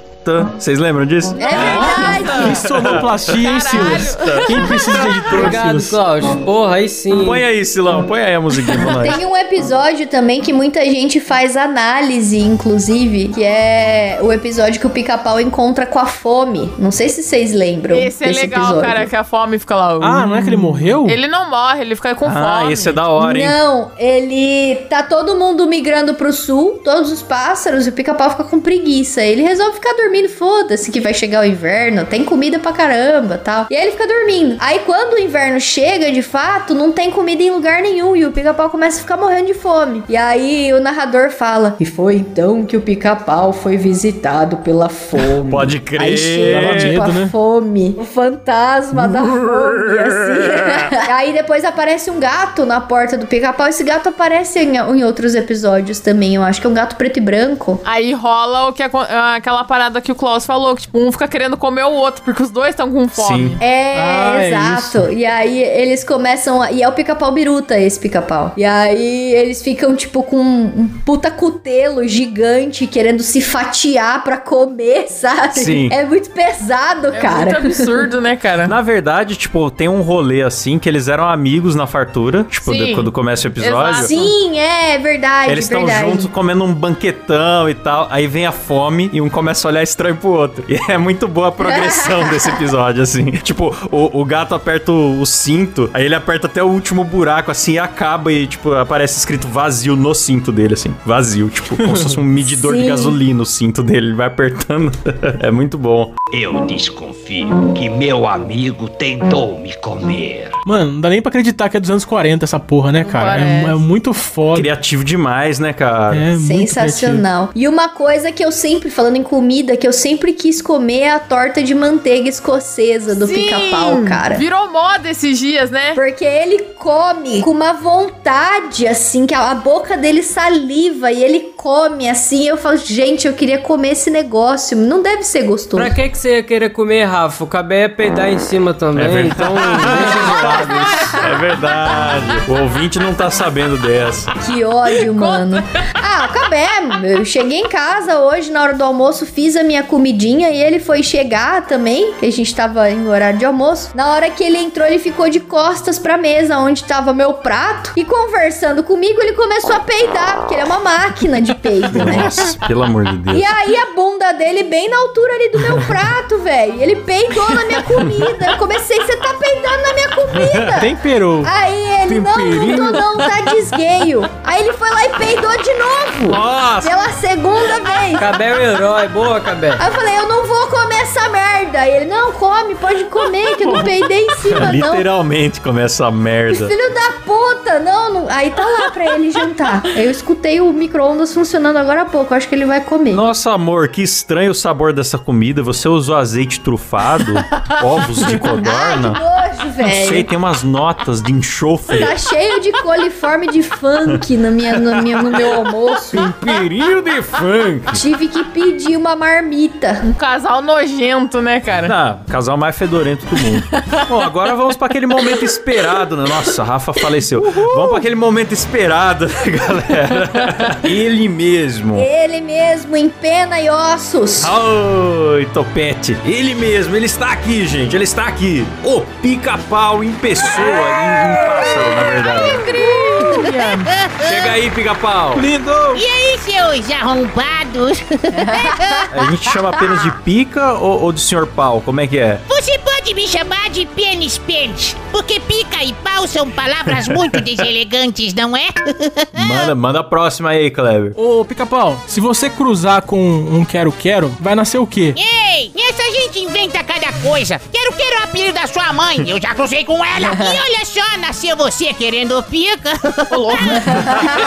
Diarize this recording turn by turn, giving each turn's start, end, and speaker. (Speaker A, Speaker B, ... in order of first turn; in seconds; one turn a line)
Speaker A: 0.2-5.3
Speaker B: 1.4-2.6
Speaker C: 1.8-2.2
Speaker D: 2.3-6.0
Speaker C: 3.4-4.7
Speaker E: 5.3-7.4
Speaker A: 7.2-9.2
Speaker B: 8.9-19.1
Speaker C: 17.9-23.0
Speaker D: 20.0-21.2
Speaker A: 22.2-23.6
Speaker B: 23.2-57.8
Speaker A: 45.2-47.0
Speaker D: 46.5-47.3
Speaker A: 48.9-50.9
Speaker C: 57.8-63.6
Speaker A: 63.2-63.6
Speaker B: 63.6-78.0
Speaker D: 63.9-65.0
Speaker A: 75.5-75.9
Speaker C: 77.1-78.7
Speaker A: 78.6-84.1
Speaker C: 82.6-83.1
Speaker C: 83.6-84.3
Speaker B: 84.0-86.3
Speaker A: 85.5-106.2
Speaker B: 91.6-92.6
Speaker D: 101.8-102.2
Speaker B: 102.4-103.2
Speaker F: 106.3-110.5
Speaker D: 110.6-114.7
Speaker C: 113.0-113.8
Speaker A: 114.5-116.3
Speaker D: 116.1-117.2
Speaker B: 116.3-124.4
Speaker C: 123.1-126.0
Speaker B: 125.9-135.9
Speaker E: 135.8-141.2
Speaker A: 138.9-144.3
Speaker B: 140.3-141.4
Speaker B: 144.4-162.5
Speaker C: 145.0-145.8
Speaker A: 161.9-163.5
Speaker B: 163.3-178.3
Speaker A: 167.8-168.3
Speaker A: 170.4-170.7
Speaker D: 170.8-171.5
Speaker A: 172.1-173.4
Speaker A: 176.3-176.9
Speaker E: 178.2-179.8
Speaker B: 179.8-185.1
Speaker A: 183.6-186.7
Speaker B: 186.5-193.2
Speaker A: 193.1-199.2
Speaker B: 198.6-200.3
Speaker A: 199.8-202.1
Speaker B: 201.9-206.3
Speaker A: 204.8-205.5
Speaker A: 206.1-208.0
Speaker B: 207.9-210.1
Speaker C: 210.1-211.9
Speaker A: 211.8-222.1
Speaker C: 217.6-217.9
Speaker B: 221.9-224.5
Speaker A: 224.4-232.8
Speaker C: 230.4-233.8
Speaker G: 233.3-234.5
Speaker A: 234.2-235.5
Speaker D: 235.3-236.0
Speaker G: 235.9-239.1
Speaker B: 238.4-239.0
Speaker A: 239.1-242.4
Speaker G: 242.5-249.7
Speaker A: 246.9-247.4
Speaker A: 249.3-251.1
Speaker D: 251.2-255.2
Speaker G: 255.1-263.6
Speaker C: 263.3-264.2